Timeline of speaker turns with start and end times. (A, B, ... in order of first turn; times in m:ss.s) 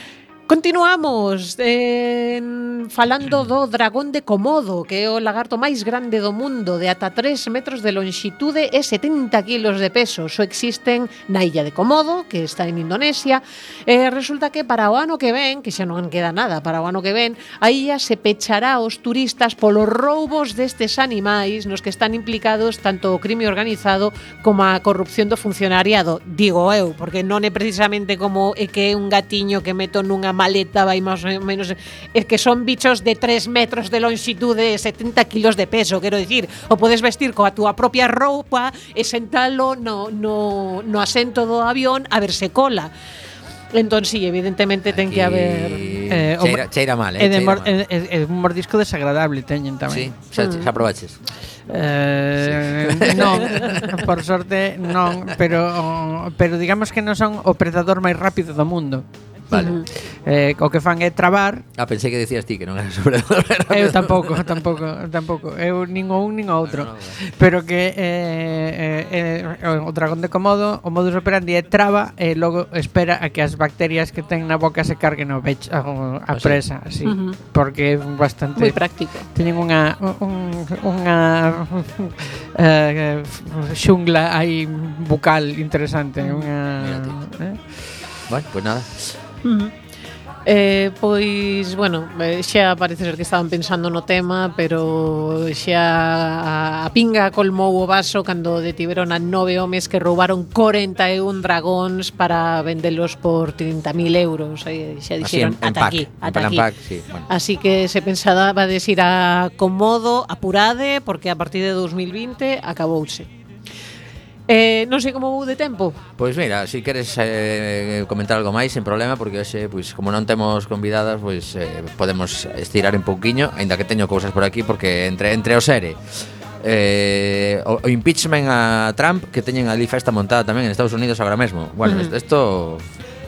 0:00.5-0:42.9 A
0:43.7-0:46.0 A
0:44.9-0:47.7 B
0:46.1-0:46.6 C
0:47.2-0:50.1 C
0:49.9-0:51.2 B
0:50.3-0:50.7 A
0:51.7-0:59.0 C
0:52.4-0:54.0 B
0:59.5-0:59.8 B
0:59.5-0:59.8 A
1:00.2-1:01.6 C
1:01.8-1:04.7 B
1:03.7-1:18.8 C
1:06.6-1:07.1 B
1:16.3-1:16.6 B
1:17.0-1:17.4 A
1:18.6-1:19.3 A
1:19.3-1:27.6 C
1:26.2-1:26.5 A
1:26.8-1:27.2 B
1:28.3-1:29.1 B
1:29.4-1:29.7 A
1:30.4-1:46.7 A
1:45.2-1:47.3 B
1:47.3-1:53.3 A
1:54.5-1:56.0 A
1:56.2-2:06.0 B
2:06.6-2:12.8 B
2:11.8-2:12.1 A